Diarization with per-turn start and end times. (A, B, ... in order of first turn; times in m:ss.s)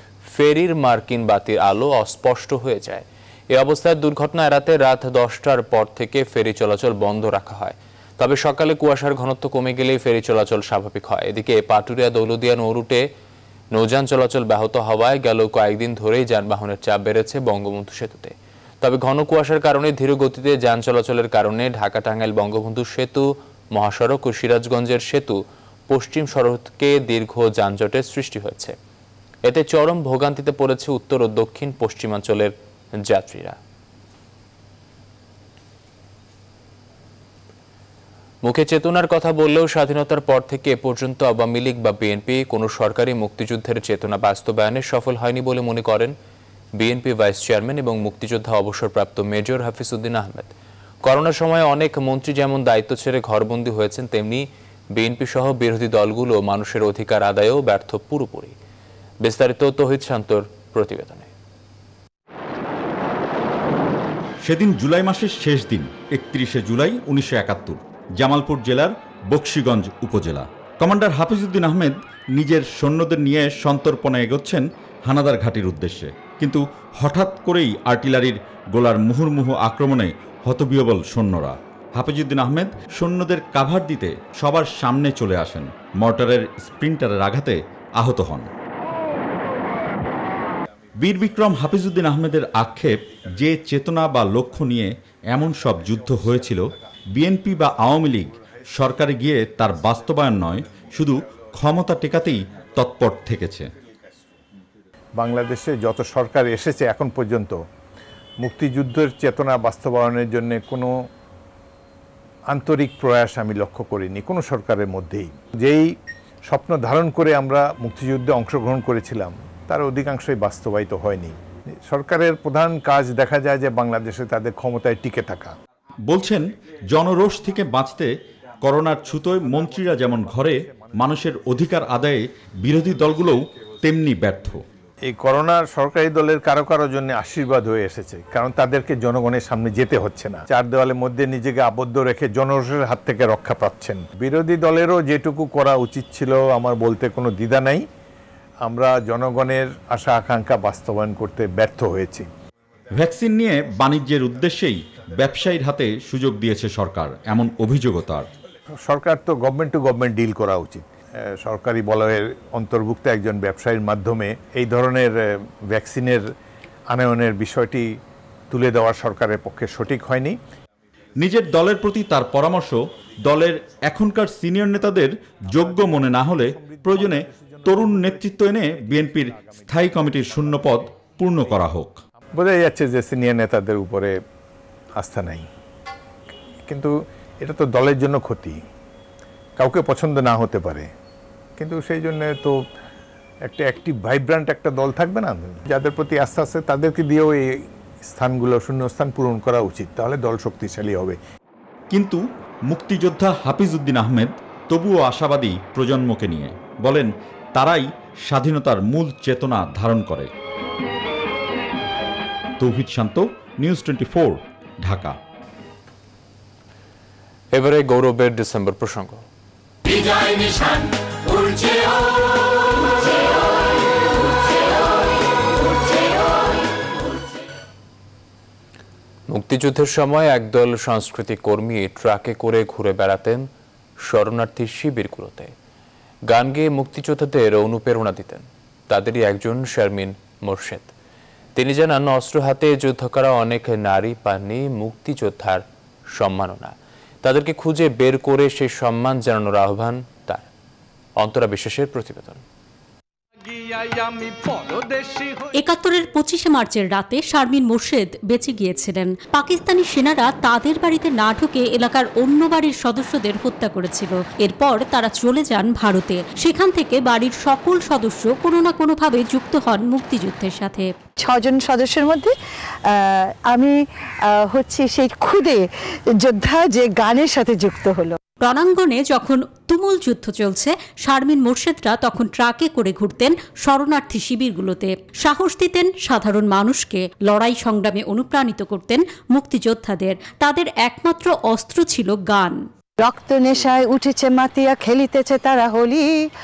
0:00.3-0:13.1 A
0:13.7-0:25.4 A
0:25.9-0:28.8 A
0:29.4-0:33.6 A
0:38.4-0:46.2 A
0:46.8-0:50.5 A
0:51.0-0:58.6 A
0:59.2-1:01.3 A
1:04.4-1:28.5 B
1:31.0-1:43.7 B
1:45.2-1:47.6 C
1:48.4-1:51.1 C
1:52.5-1:56.0 C
1:56.5-2:05.6 C
2:06.1-2:14.6 B
2:09.4-2:10.9 C
2:15.1-2:27.9 C
2:28.6-2:32.3 C
2:32.9-2:38.3 B
2:38.8-2:46.3 C
2:46.9-2:47.9 C
2:48.5-2:50.4 C
2:51.2-3:02.0 B
2:55.5-2:59.7 C
3:02.4-3:04.2 C
3:05.0-3:05.5 C
3:06.7-3:08.6 C
3:09.6-3:10.9 C
3:11.6-3:12.6 C
3:13.4-3:21.2 C
3:21.9-3:30.3 B
3:32.6-3:35.2 B
3:37.5-3:39.2 A
3:49.3-3:53.5 A
3:54.0-3:55.5 A
3:56.3-4:00.9 A
4:01.6-4:10.5 A
4:11.2-4:12.4 A
4:15.5-4:30.9 D
4:31.2-4:32.3 E
4:32.9-4:35.7 E
4:36.2-4:38.2 E
4:38.4-4:52.6 D
4:53.0-4:56.3 E